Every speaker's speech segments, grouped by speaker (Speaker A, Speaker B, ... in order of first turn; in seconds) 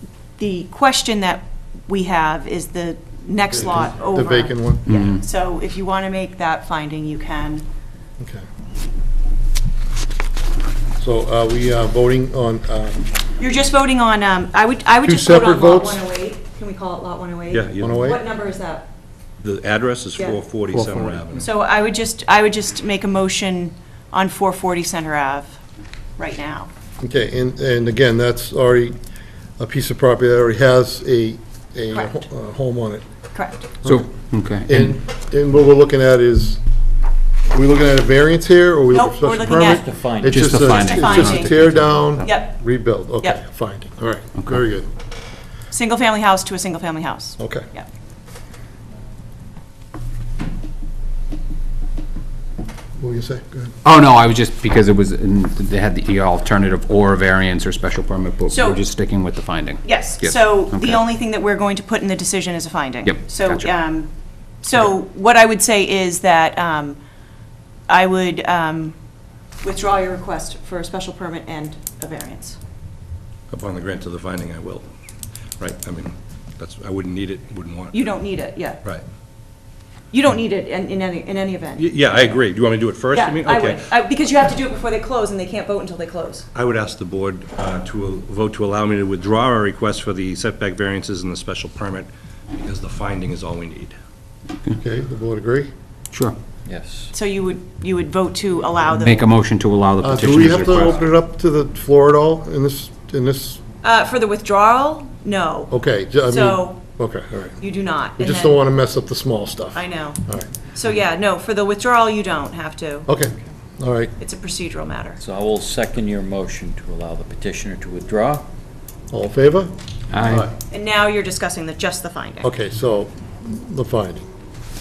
Speaker A: 0.4-7.6, 13.4-18.9, 21.4-25.6, 26.2-26.7, 31.9-32.2, 33.3-33.7, 38.9-39.8, 40.6-41.6, 42.2-42.6, 45.7-47.9, 58.5-58.8, 59.8-64.1, 64.6-67.0, 67.9-69.0, 69.6-72.6, 77.9-78.8, 80.1-81.9, 83.1-86.5, 97.1-99.3, 103.8-105.7, 106.3-106.8, 107.6-108.6, 109.7-113.1, 114.2-115.2, 120.7-122.5
Speaker B: 3.5-5.1, 11.0-13.1, 15.0-16.0, 17.8-18.2, 20.7-21.2, 27.0-28.9, 29.6-33.0, 34.6-36.6, 37.5-44.9, 47.4-47.6, 53.0-53.7, 94.8-95.7, 100.0-103.6, 105.7-107.6, 108.2-110.5, 113.1-114.1, 119.1-119.7, 122.4-124.2
Speaker C: 4.9-5.2, 33.8-34.9, 40.3-42.3, 53.8-61.0, 63.0-63.7, 98.9-101.1, 120.1-120.5
Speaker D: 17.5-18.2, 19.4-21.5, 73.5-74.8, 75.6-78.0, 81.8-83.9, 86.5-93.9
Speaker E: 39.5-40.8, 96.7-97.1, 115.2-118.5